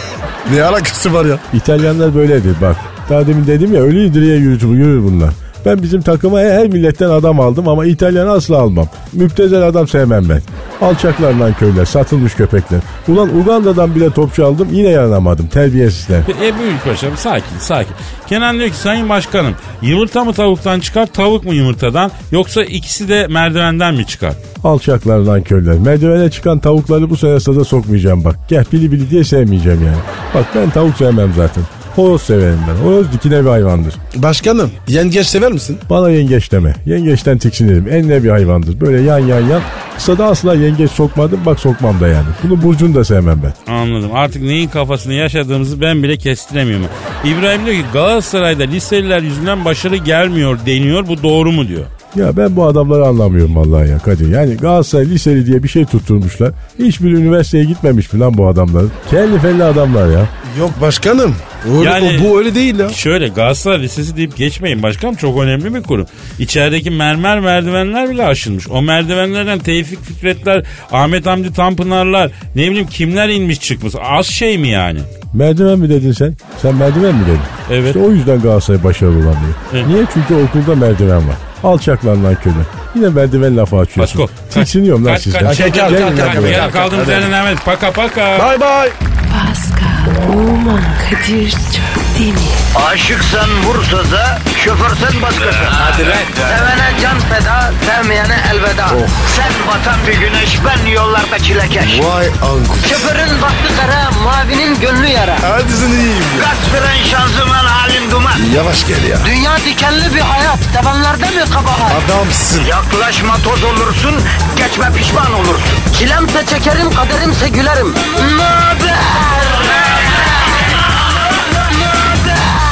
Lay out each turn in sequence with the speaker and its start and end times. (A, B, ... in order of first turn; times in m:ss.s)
0:00.4-0:01.5 A
0:01.5-0:16.3 B
0:16.3-0:24.4 C
0:24.6-0:34.0 B
0:34.1-0:35.8 A
0:35.9-0:43.6 B
0:43.7-0:51.9 C
0:52.1-1:00.3 B
1:00.4-1:03.0 A
1:01.8-1:02.3 C
1:02.9-1:15.1 C
1:15.3-1:26.7 B
1:17.7-1:18.0 C
1:24.0-1:28.5 C
1:25.4-1:27.3 A
1:28.4-1:29.0 A
1:29.3-1:32.6 D
1:32.7-1:42.1 E
1:35.8-1:36.3 A
1:38.9-1:39.2 A
1:41.8-1:43.0 A
1:42.8-1:45.5 E
1:45.4-1:46.5 A
1:46.4-1:48.5 E
1:48.3-1:49.3 A
1:49.2-1:52.0 E
1:51.9-1:52.7 A
1:52.6-2:00.4 E
2:01.9-2:02.6 E